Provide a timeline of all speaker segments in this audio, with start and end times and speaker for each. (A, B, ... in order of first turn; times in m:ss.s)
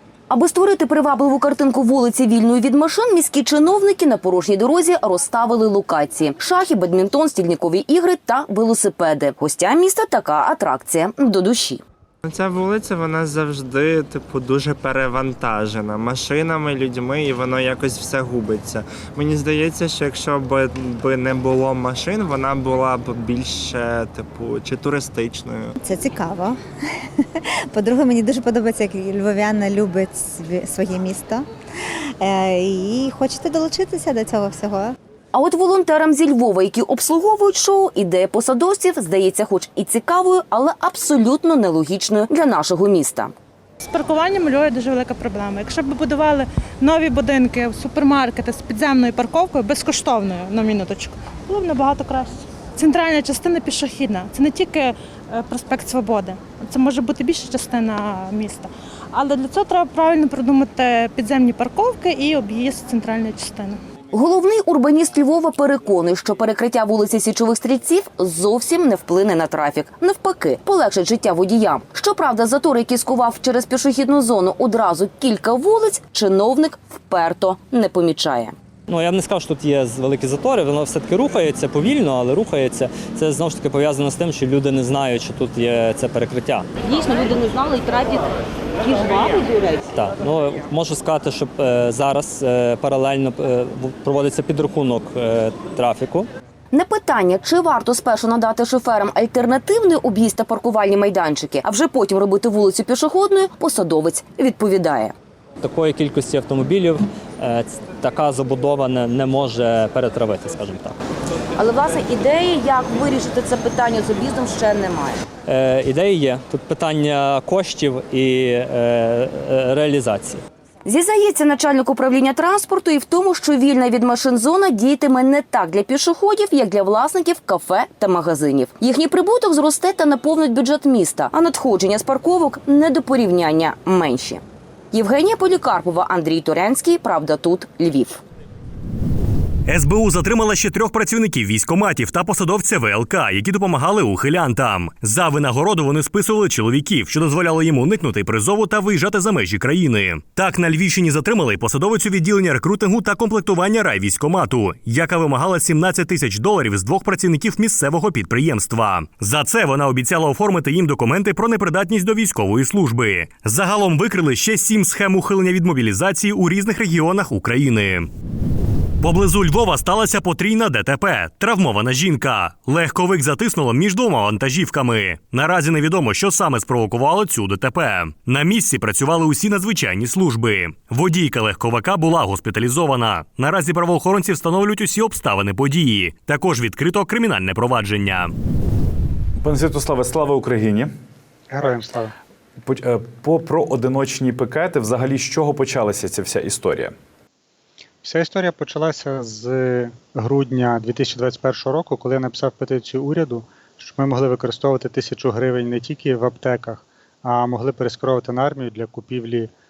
0:00.3-0:11.8 A
0:12.2-0:25.8 B
0:25.8-0:26.6 C
0:27.7-0:31.5 C
0:32.2-0:35.0 C
0:35.3-0:43.3 A
0:43.8-1:03.8 D
1:04.1-1:18.5 A
1:18.9-1:26.7 E
1:26.8-1:28.3 A
1:28.8-1:29.8 A
1:29.9-1:36.3 E
1:36.7-1:45.1 A
1:45.6-1:51.0 E
1:51.6-1:55.2 A
1:55.5-2:00.4 E
2:00.8-2:18.2 A
2:19.7-2:48.1 F
2:49.0-3:08.3 F
3:09.4-3:10.9 G
3:11.5-3:12.1 H
3:12.6-3:16.9 G
3:18.0-3:29.5 H